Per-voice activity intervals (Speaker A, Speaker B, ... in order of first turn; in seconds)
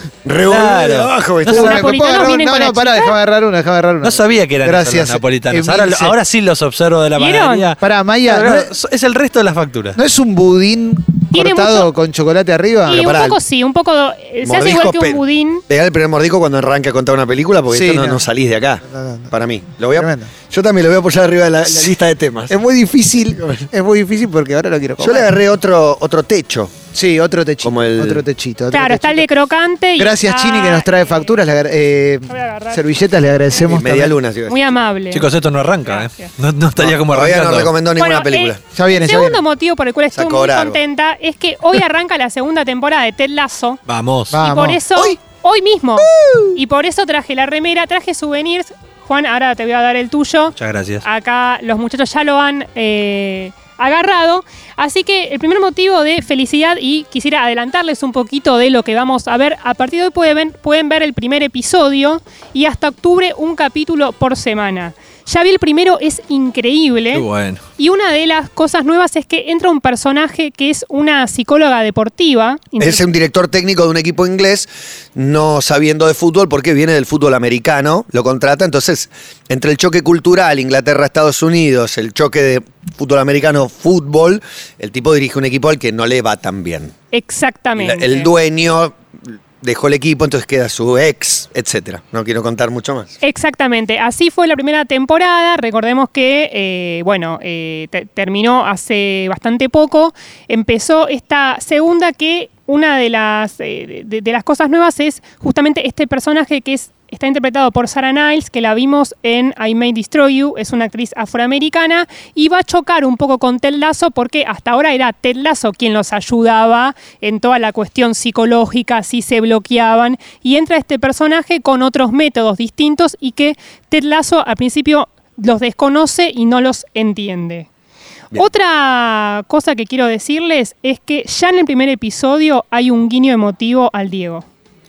Speaker A: 0.2-1.9, 12.9-13.4, 14.4-22.5, 25.0-26.7, 27.6-28.2, 33.6-34.6, 36.8-38.6, 40.1-40.8, 46.1-46.5, 72.8-86.9, 87.8-89.0, 89.6-93.1
Speaker B: 0.4-1.8, 4.0-10.0, 35.1-37.7, 43.9-44.4, 50.5-51.0, 67.1-67.6
Speaker C: 1.5-6.2, 7.8-8.7, 9.9-13.1, 17.7-18.2, 18.8-20.3, 22.5-25.3, 26.9-29.3, 30.0-34.1, 38.7-39.4, 44.3-44.8
Speaker D: 1.5-3.1, 7.2-7.7, 11.3-11.9, 12.9-15.6, 28.7-31.3, 32.3-33.6, 34.5-35.2, 35.8-36.3, 38.0-43.8, 44.4-67.2, 67.8-73.1, 87.1-88.3, 93.2-127.7, 128.3-134.4